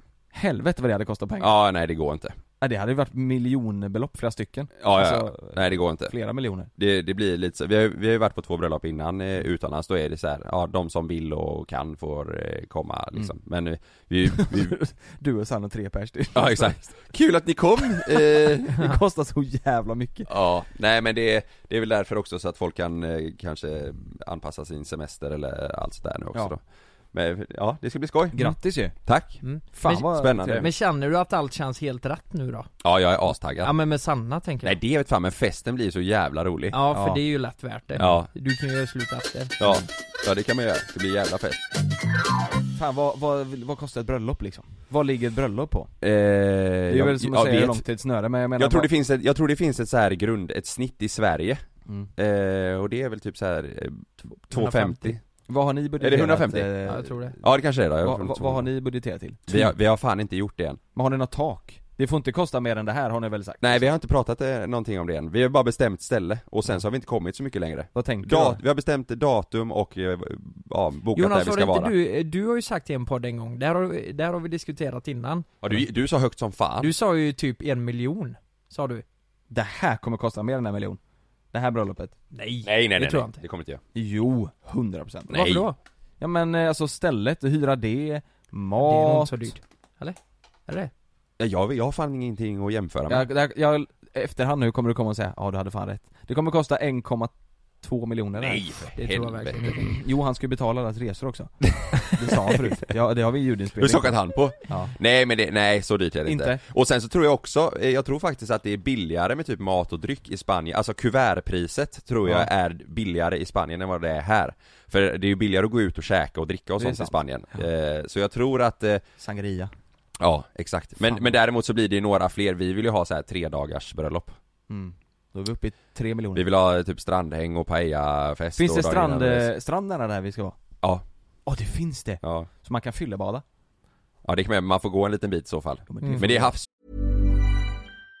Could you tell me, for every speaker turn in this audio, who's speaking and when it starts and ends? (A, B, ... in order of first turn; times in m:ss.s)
0:00.3-0:01.5 A
0:01.4-0:02.4 B
0:02.6-0:06.7 A
0:04.8-0:06.1 B
0:06.8-0:14.8 B
0:14.3-0:16.9 A
0:16.3-0:18.8 B
0:17.8-0:20.3 A
0:20.3-0:26.6 B
0:27.1-0:28.4 B
0:28.3-0:29.0 A
0:29.0-0:29.4 B
0:29.4-0:32.7 C
0:29.7-0:30.7 A
0:30.1-0:30.7 B
0:32.8-0:33.7 B
0:33.6-0:34.8 C
0:34.6-0:36.8 B
0:36.7-0:39.8 C
0:36.9-0:37.2 A
0:38.0-0:38.3 B
0:39.6-0:41.6 B
0:42.7-0:45.9 A
0:46.0-0:47.8 B
0:46.9-0:48.9 A
0:48.6-0:51.6 B
0:52.2-0:55.2 B
0:54.5-0:55.1 C
0:55.5-0:57.4 A
0:56.0-0:56.7 B
0:56.8-0:57.3 C
0:57.4-0:58.7 B
0:58.0-0:59.7 A
0:59.5-1:00.8 B
1:00.9-1:03.9 A
1:03.6-1:11.9 B
1:07.9-1:08.6 A
1:11.1-1:15.5 C
1:15.6-1:16.9 B
1:16.8-1:19.0 C
1:19.5-1:21.0 A
1:21.5-1:22.1 A
1:22.3-1:23.4 C
1:22.6-1:23.8 B
1:23.9-1:25.4 A
1:25.3-1:25.7 B
1:25.3-1:25.7 C
1:26.2-1:29.5 A
1:28.8-1:30.9 C
1:31.4-1:33.2 B
1:33.1-1:38.6 A
1:38.4-1:39.7 B
1:39.0-1:39.9 C
1:39.7-1:44.2 A
1:43.8-1:59.0 B
1:44.7-1:44.9 A
1:46.2-1:46.6 A
1:56.8-1:57.6 A
1:59.2-1:59.7 A
2:00.2-2:04.4 B
2:04.7-2:06.4 A
2:06.3-2:09.5 B
2:08.6-2:10.6 A
2:11.4-2:13.4 A
2:12.2-2:12.5 B
2:14.2-2:16.6 B
2:15.9-2:16.5 A